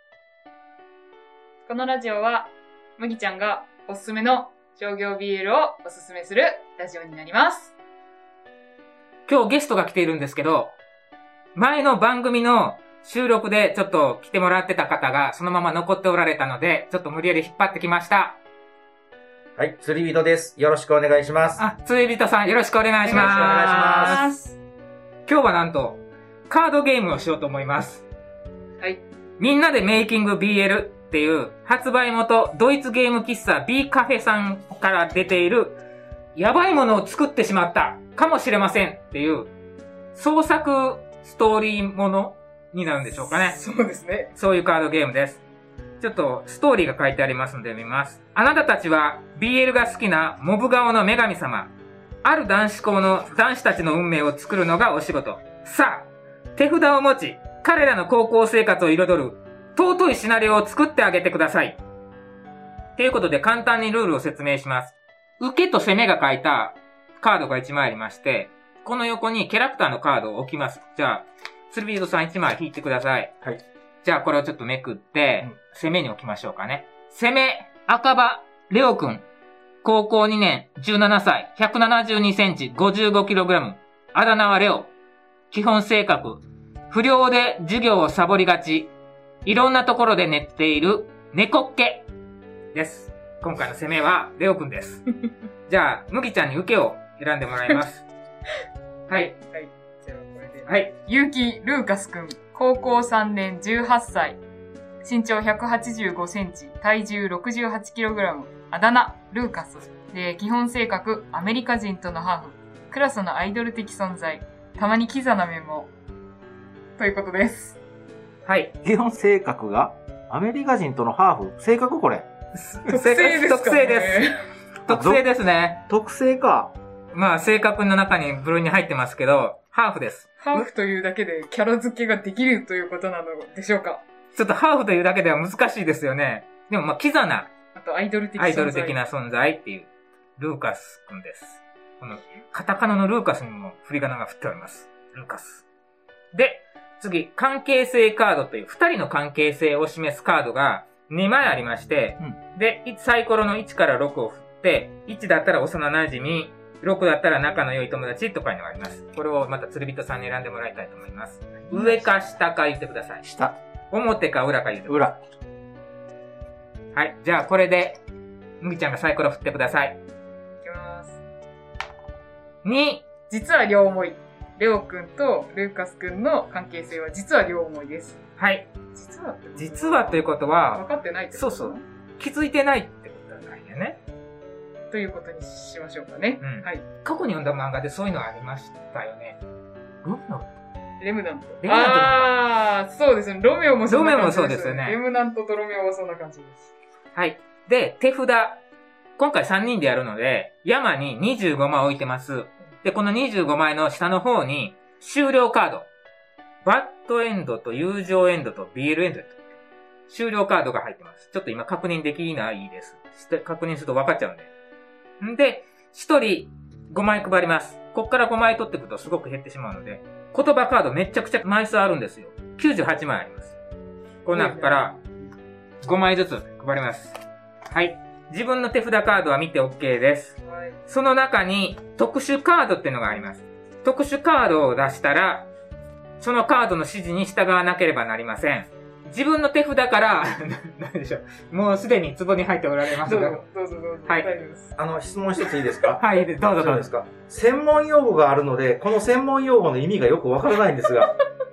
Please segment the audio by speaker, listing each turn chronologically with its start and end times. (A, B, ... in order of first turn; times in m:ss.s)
0:01.6-0:07.7 A
0:09.3-0:10.7 B
0:11.5-0:18.4 B
0:19.6-0:21.6 C
0:21.6-0:24.3 B
0:23.0-0:24.6 A
0:23.1-0:24.2 C
0:25.3-0:28.0 B
0:29.4-0:35.8 B
0:36.3-0:39.5 B
0:40.1-0:43.6 B
0:43.3-0:44.3 A
0:44.4-0:45.4 B
0:46.0-0:51.7 B
0:52.2-1:01.8 B
1:03.0-1:13.3 B
1:14.0-1:19.2 B
1:19.8-1:24.9 B
1:25.5-1:28.9 B
1:29.4-1:32.0 B
1:32.7-1:35.0 B
1:35.7-1:38.0 B
1:39.1-1:44.4 A
1:45.0-1:55.9 A
1:57.0-1:57.8 A
1:58.4-1:58.7 B
1:58.8-2:02.3 C
2:02.5-2:04.3 B
2:02.9-2:04.4 A
2:04.8-2:05.8 B
2:04.9-2:05.2 C
2:05.9-2:06.7 C
2:07.1-2:10.7 B
2:10.4-2:14.0 A
2:14.3-2:17.5 B
2:17.7-2:19.0 A
2:18.4-2:25.6 B
2:26.3-2:43.2 B
2:43.2-2:43.5 C
2:43.9-2:45.1 B
2:44.9-2:45.1 C
2:46.9-2:48.0 B
2:48.6-2:50.0 B
2:50.6-2:51.2 A
2:52.6-2:53.0 B
2:53.3-2:58.2 A
2:58.4-2:58.7 B
2:58.9-3:01.8 A
2:59.6-3:00.8 B
3:01.3-3:04.0 B
3:04.9-3:06.8 A
3:06.4-3:09.4 B
3:10.0-3:10.5 B
3:11.0-3:16.7 A
3:11.6-3:12.3 B
3:13.9-3:15.0 B
3:17.1-3:18.6 B
3:19.2-3:25.9 B
3:26.6-3:29.4 B
3:30.1-3:34.5 B
3:35.2-3:43.5 B
3:44.2-3:44.9 B
3:44.3-3:45.3 A
3:45.8-3:55.5 B
3:50.4-3:50.8 A
3:56.2-4:03.4 B
4:03.0-4:04.7 A
4:04.8-4:06.0 C
4:06.0-4:06.9 B
4:06.6-4:11.1 C